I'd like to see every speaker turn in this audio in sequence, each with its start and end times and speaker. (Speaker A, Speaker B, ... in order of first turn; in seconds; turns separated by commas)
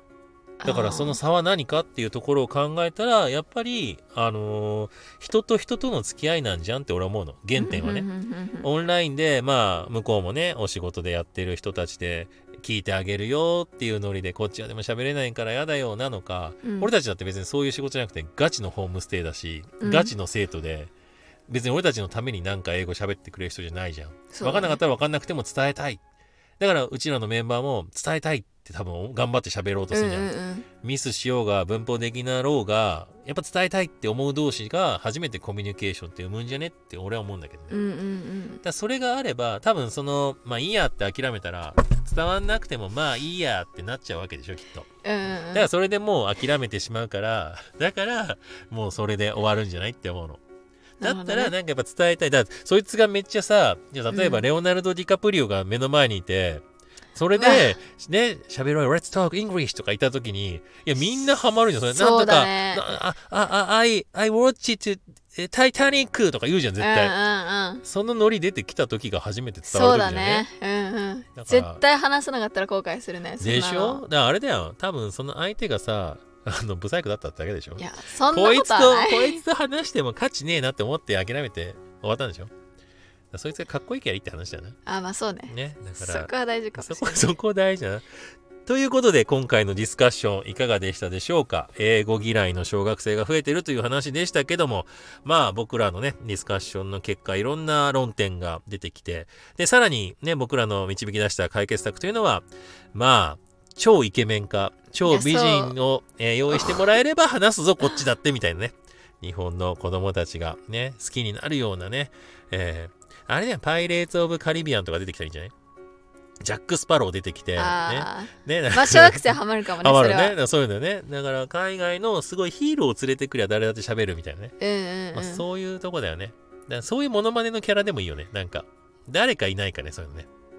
Speaker A: 0.6-1.2, Speaker B: 0.6-8.1, Speaker A: 7.5-8.7, Speaker B: 8.6-20.9, Speaker A: 16.6-16.9, Speaker A: 19.8-20.1, Speaker B: 21.5-26.0, Speaker A: 24.3-24.8, Speaker B: 26.6-30.3, Speaker A: 29.9-30.7, Speaker B: 30.8-37.8, Speaker A: 37.7-38.6, Speaker B: 38.6-44.9, Speaker A: 45.0-45.7, Speaker B: 45.5-50.4, Speaker A: 51.0-51.5, Speaker B: 51.0-56.6, Speaker A: 54.1-54.5, Speaker B: 57.1-67.1, Speaker A: 57.4-57.8, Speaker A: 61.9-62.9, Speaker A: 66.8-67.8, Speaker B: 67.8-70.5, Speaker A: 69.7-74.0, Speaker B: 71.3-71.8, Speaker B: 73.4-82.5, Speaker A: 77.8-79.4, Speaker B: 83.3-84.8, Speaker A: 84.8-87.3, Speaker B: 85.5-88.0, Speaker B: 88.6-115.5, Speaker A: 105.0-105.7, Speaker B: 116.4-124.5, Speaker A: 117.6-120.4, Speaker A: 124.6-125.4, Speaker B: 125.1-130.3